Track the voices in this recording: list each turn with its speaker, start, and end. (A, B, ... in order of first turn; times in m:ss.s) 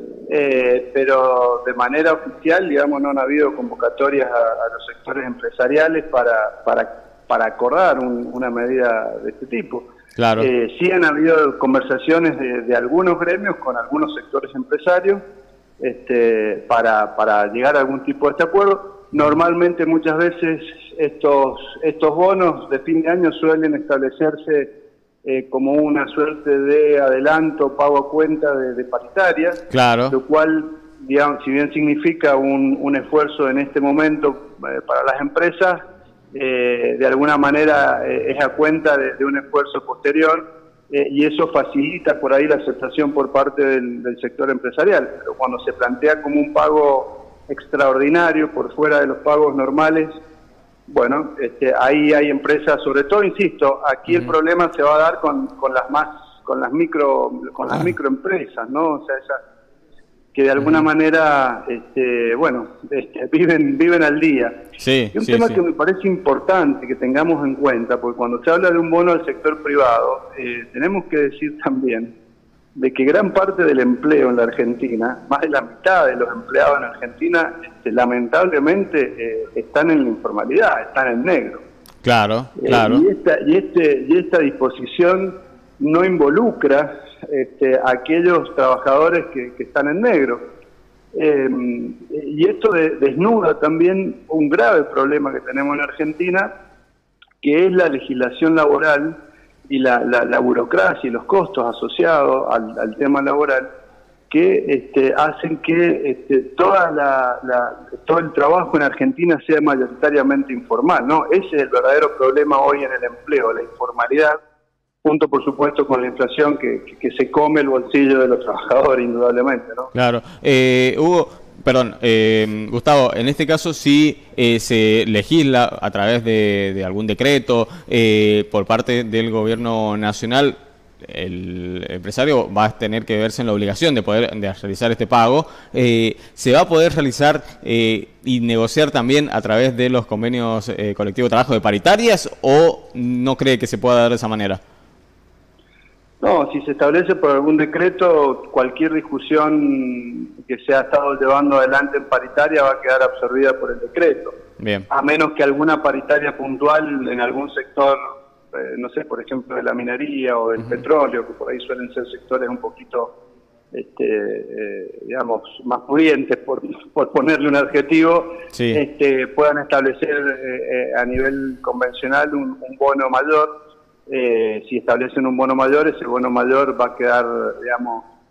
0:00.3-0:09.9 A
0:10.2-0:10.5 B
0:10.4-0:15.2 A
0:15.8-0:24.7 A
0:25.2-0:35.8 A
0:29.7-0:30.2 B
0:36.3-0:50.1 A
0:50.9-0:59.4 A
1:00.3-1:04.6 A
1:04.8-1:05.6 B
1:05.1-1:12.1 A
1:12.8-1:21.6 A
1:22.0-1:23.0 B
1:22.6-1:30.4 A
1:31.1-1:36.5 A
1:37.4-1:39.2 A
1:39.7-1:43.7 A
1:44.3-1:54.4 A
1:55.0-1:59.9 A
1:59.9-2:24.6 B
2:26.2-2:34.4 A
2:34.6-2:34.9 B
2:34.9-2:38.0 A
2:38.5-2:43.1 A
2:43.7-2:53.5 A
2:48.5-2:48.8 B
2:54.1-2:58.1 A